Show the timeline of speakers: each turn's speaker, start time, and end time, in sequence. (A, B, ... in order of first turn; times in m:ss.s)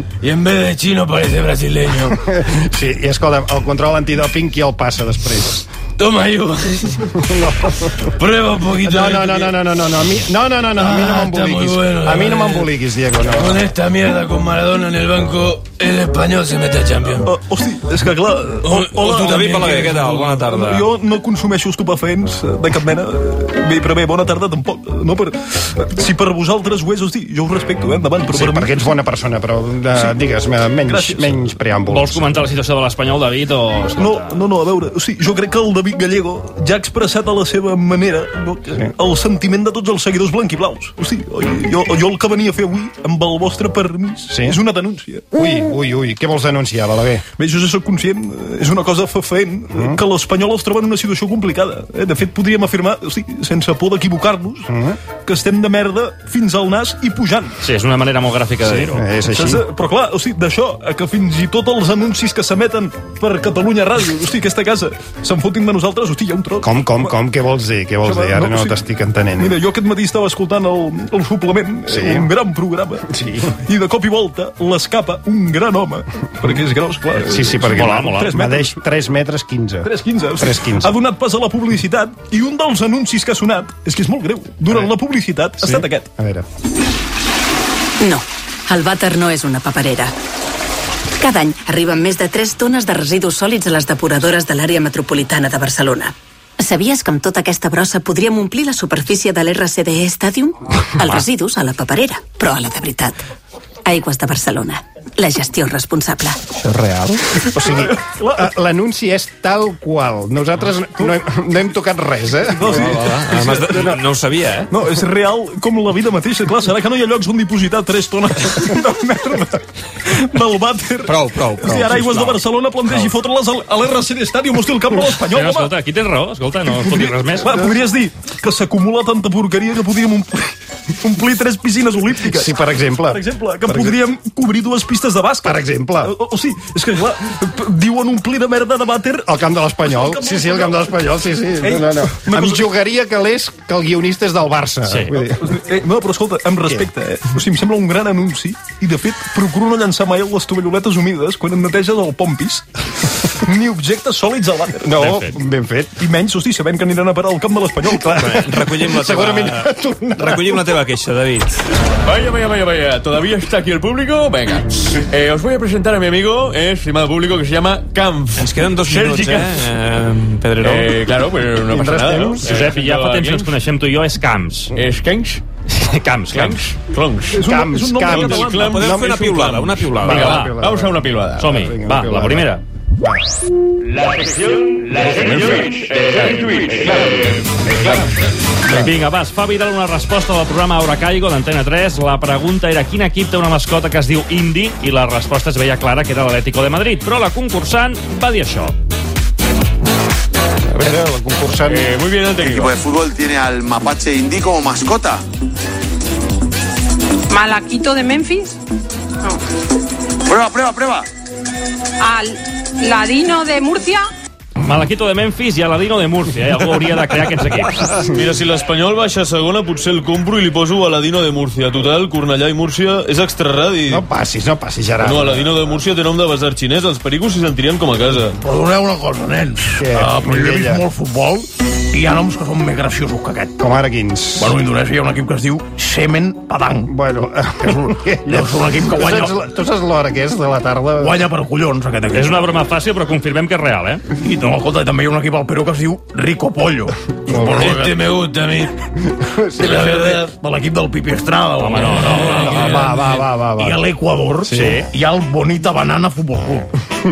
0:00.2-0:02.2 A
0:02.1-0:05.6 B
0:06.0-0:07.2 A
0:07.2-0:08.1 B
0:08.0-0:09.5 A
0:08.8-0:13.6 B
0:10.8-0:17.3 A
0:17.2-0:28.9 C
0:18.6-0:20.2 A
0:18.8-0:20.9 D
0:28.3-0:32.3 B
0:29.9-0:30.2 C
0:30.8-0:31.5 C
0:31.9-0:34.4 E
0:34.0-0:45.3 C
0:44.3-0:44.6 B
0:45.4-0:47.2 B
0:47.4-0:54.7 C
0:49.7-0:50.0 B
0:54.7-0:55.0 B
0:55.2-0:57.6 C
0:57.6-0:59.0 E
0:58.7-1:07.1 C
0:58.7-0:59.6 B
1:06.6-1:09.5 B
1:08.0-1:08.8 C
1:09.4-1:18.8 C
1:11.9-1:12.3 B
1:13.1-1:13.5 B
1:17.2-1:20.9 B
1:17.7-1:18.3 E
1:19.8-1:26.1 C
1:25.6-1:26.4 B
1:28.0-1:30.1 F
1:31.2-1:43.2 F
1:43.8-1:46.4 F
1:47.4-1:48.5 C
1:47.5-1:52.7 B
1:52.5-1:54.1 C
1:52.6-1:54.7 D
1:54.7-2:05.7 C
2:01.0-2:03.1 D
2:05.3-2:07.6 E
2:06.7-2:19.3 C
2:12.3-2:14.0 B
2:15.4-2:16.1 B
2:19.3-2:25.6 B
2:19.8-2:21.0 C
2:21.6-2:22.7 C
2:25.1-2:35.1 C
2:26.6-2:26.9 B
2:34.8-2:36.0 B
2:35.0-2:35.4 E
2:36.0-2:38.4 C
2:37.8-2:40.7 B
2:38.2-2:41.6 D
2:42.0-2:49.6 G
2:48.4-2:51.1 D
2:50.6-2:53.5 G
2:51.6-2:52.7 B
2:52.4-2:54.7 E
2:54.8-2:55.4 G
2:55.7-2:56.6 E
2:56.3-2:57.4 G
2:57.3-2:58.8 C
2:57.5-2:59.1 B
2:58.0-3:00.4 D
2:58.1-3:01.5 G
3:00.0-3:02.5 B
3:00.1-3:00.6 E
3:01.4-3:02.6 E
3:04.9-3:07.3 G
3:05.0-3:06.4 E
3:08.7-3:18.7 E
3:20.7-3:22.0 B
3:21.6-3:22.5 G
3:22.4-3:25.2 H
3:27.3-3:28.5 I
3:30.3-3:31.0 H
3:32.0-3:34.0 I
3:34.6-3:38.0 E
3:38.1-3:44.0 G
3:43.9-3:45.7 B
3:45.0-3:48.4 G
3:48.4-3:53.5 J
3:49.8-3:50.8 B
3:53.6-3:54.6 B
3:54.4-3:56.9 J
3:56.9-4:01.3 B
3:57.6-3:59.4 J
4:01.0-4:02.4 J
4:02.1-4:04.0 E
4:04.2-4:08.0 J
4:07.3-4:07.7 B
4:07.5-4:08.7 A
4:09.1-4:09.9 B
4:09.6-4:10.3 A
4:09.6-4:16.7 J
4:11.6-4:12.8 E
4:12.1-4:12.9 A
4:12.2-4:13.8 B
4:14.5-4:14.9 E
4:14.5-4:14.8 B